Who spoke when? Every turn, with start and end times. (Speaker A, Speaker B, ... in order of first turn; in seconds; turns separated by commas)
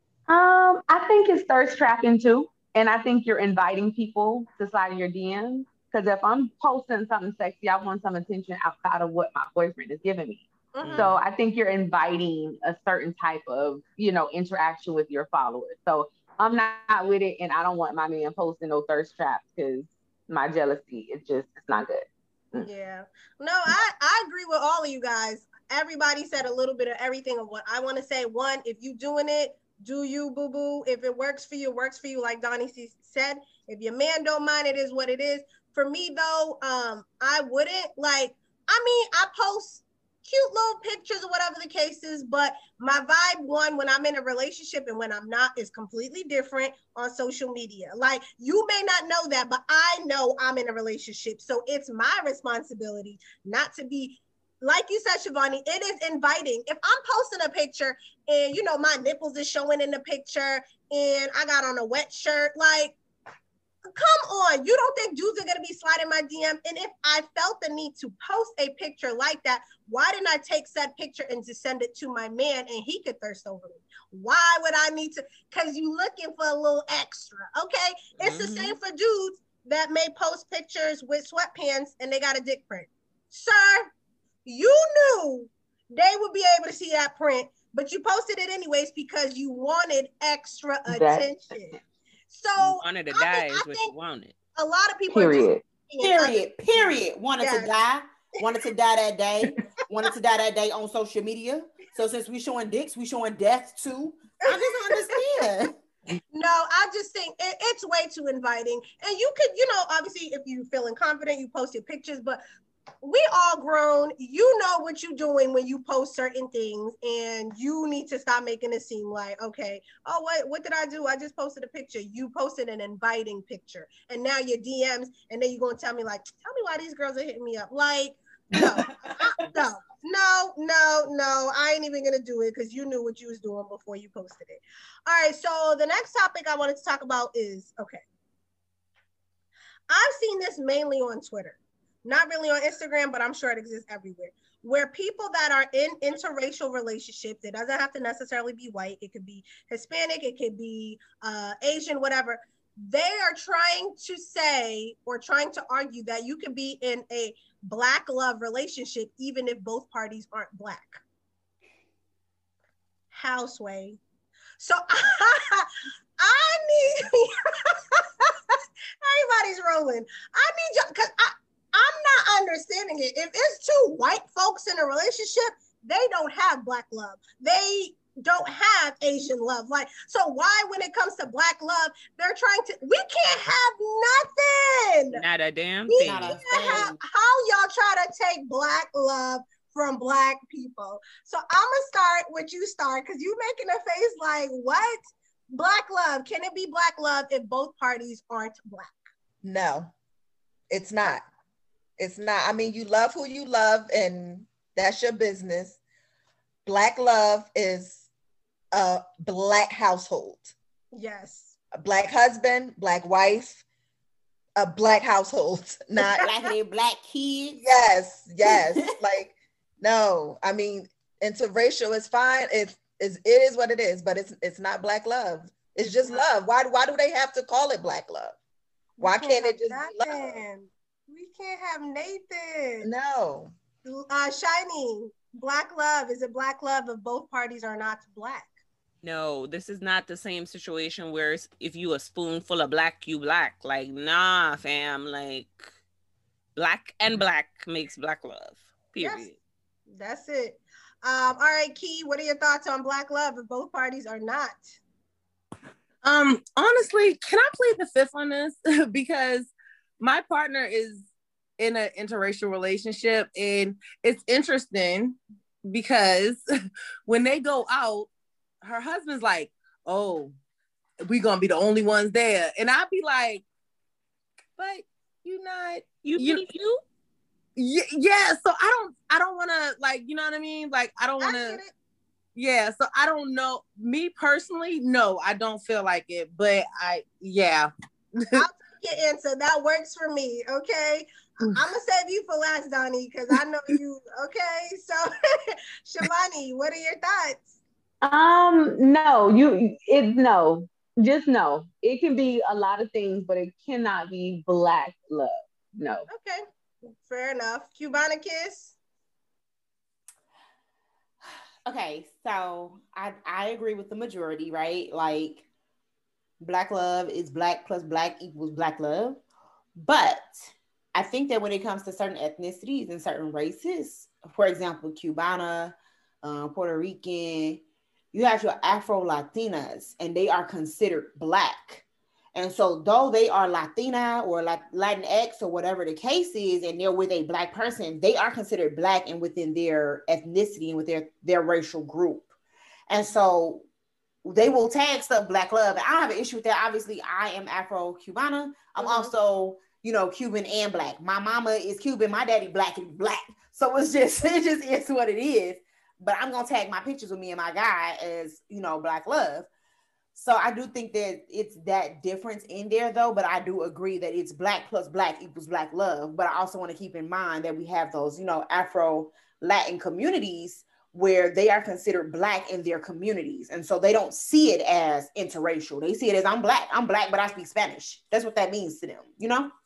Speaker A: 0.3-22.7, Speaker B: 10.7-11.1, Speaker B: 22.6-63.0, Speaker B: 63.9-83.9, Speaker C: 78.2-78.8, Speaker B: 84.4-93.9, Speaker A: 90.9-91.3, Speaker C: 92.6-94.3, Speaker B: 94.6-97.7, Speaker A: 95.1-95.6, Speaker D: 96.0-105.7, Speaker B: 106.3-112.4, Speaker B: 113.0-138.0, Speaker B: 139.9-161.0, Speaker B: 163.1-164.0, Speaker B: 164.6-165.7, Speaker B: 166.2-185.2, Speaker C: 185.1-186.8, Speaker B: 185.9-199.1, Speaker D: 186.0-187.0, Speaker E: 199.4-199.9, Speaker E: 200.7-201.2, Speaker E: 202.0-205.8, Speaker E: 206.7-208.1, Speaker E: 208.7-210.5, Speaker B: 210.9-211.5, Speaker E: 211.7-213.6, Speaker E: 214.6-216.3, Speaker B: 216.0-216.5, Speaker D: 216.2-217.6, Speaker E: 217.6-228.4, Speaker B: 229.0-232.9, Speaker E: 229.0-230.4, Speaker E: 232.8-233.5, Speaker B: 233.8-238.5, Speaker C: 239.0-245.7, Speaker C: 246.6-249.4, Speaker B: 249.0-249.3, Speaker B: 249.9-254.8, Speaker F: 256.0-261.1, Speaker F: 261.6-266.4, Speaker F: 267.1-268.1, Speaker F: 268.6-270.3, Speaker F: 271.1-273.4, Speaker F: 274.6-276.5, Speaker C: 276.0-276.8, Speaker F: 277.6-281.6, Speaker B: 281.2-281.7, Speaker F: 282.4-288.5, Speaker B: 288.3-297.5, Speaker A: 298.0-306.1, Speaker B: 306.1-308.8, Speaker D: 311.6-315.4, Speaker D: 316.4-319.2, Speaker D: 319.8-327.6, Speaker D: 328.1-331.8, Speaker D: 332.4-342.3, Speaker D: 342.9-343.6, Speaker D: 344.2-359.5, Speaker B: 348.8-349.1, Speaker D: 360.1-379.5